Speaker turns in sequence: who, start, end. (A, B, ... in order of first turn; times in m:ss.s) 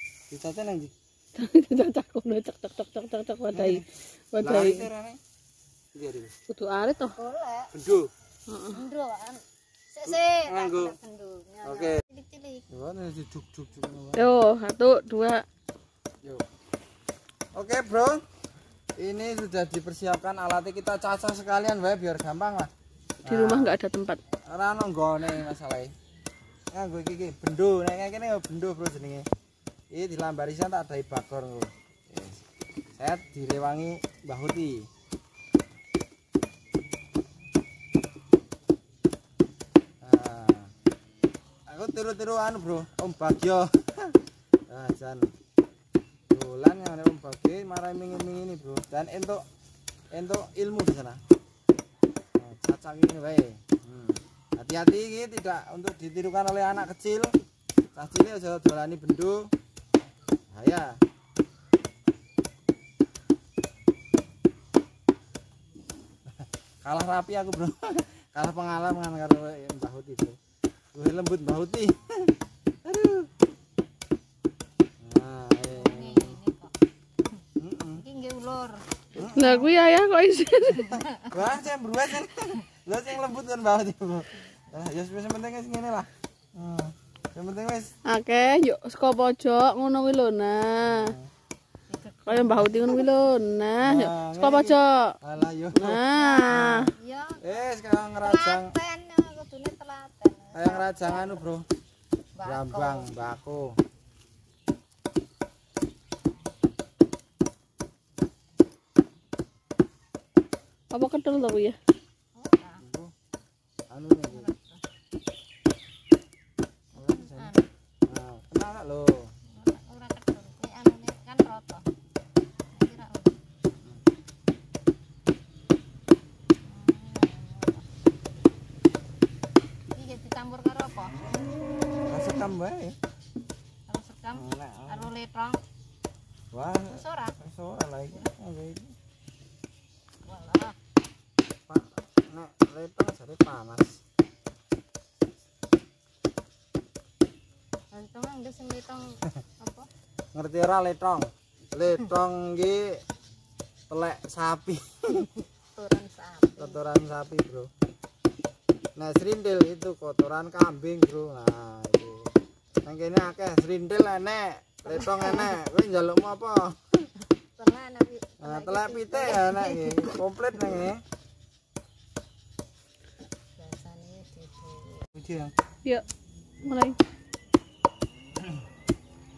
0:00.3-0:00.9 A
0:01.4-0:04.9 B
0:03.5-0:03.9 A
0:04.4-0:05.2 A
0:05.9-0:06.3 A
0:06.5-0:07.2 B
0:07.2-0:07.7 C
0:07.7-0:08.1 A
0:08.5-0:08.8 B
0:08.7-0:09.4 C
0:09.9-0:12.7 C
0:10.0-0:10.9 A
0:11.6-0:12.0 A
0:12.7-0:14.3 A
0:14.2-0:15.4 B
0:17.5-0:18.2 A
0:19.0-0:22.7 A
0:23.2-0:23.8 A
0:23.3-0:24.2 B
0:24.5-0:25.9 A
0:26.7-0:29.2 A
0:29.9-0:32.4 A
0:32.9-0:34.9 A
0:40.0-0:40.7 A
0:41.7-0:44.2 A
0:44.7-0:45.3 A
0:46.3-0:49.4 A
0:50.1-0:51.2 A
0:52.4-0:57.3 A
0:57.9-0:59.5 A
1:00.5-1:01.0 A
1:06.8-1:10.4 A
1:10.9-1:12.3 A
1:12.8-1:13.3 A
1:15.0-1:16.4 A
1:15.7-1:16.7 C
1:17.6-1:18.0 A
1:18.0-1:19.2 C
1:19.2-1:19.7 A
1:19.4-1:20.9 B
1:20.8-1:21.3 C
1:21.3-1:27.9 A
1:28.0-1:31.1 B
1:30.8-1:31.3 A
1:31.9-1:32.8 C
1:32.2-1:35.1 B
1:33.8-1:36.9 A
1:35.7-1:36.9 B
1:36.1-1:41.5 C
1:37.4-1:38.7 A
1:40.5-1:41.6 A
1:42.4-1:43.1 C
1:42.4-1:43.7 A
1:50.9-1:51.8 B
1:52.3-1:52.8 C
1:52.8-1:53.1 A
1:53.9-1:54.5 A
1:54.2-1:54.8 C
1:56.9-1:57.5 A
1:56.9-1:57.7 C
1:58.0-1:59.3 A
1:59.5-2:01.8 C
2:02.7-2:03.4 C
2:06.7-2:07.8 C
2:09.9-2:11.4 C
2:12.0-2:13.0 A
2:13.9-2:15.6 C
2:14.3-2:15.1 A
2:16.5-2:18.9 A
2:16.8-2:17.4 C
2:20.2-2:20.7 C
2:21.7-2:24.0 A
2:27.9-2:29.9 C
2:30.3-2:33.0 A
2:33.9-2:35.3 A
2:35.7-2:37.0 C
2:36.6-2:37.7 A
2:39.0-2:42.3 A
2:42.8-2:47.1 A
2:44.9-2:45.6 C
2:47.4-2:50.7 C
2:48.4-2:51.0 A
2:53.6-2:55.0 C
2:55.1-2:55.5 A
2:56.6-2:57.0 B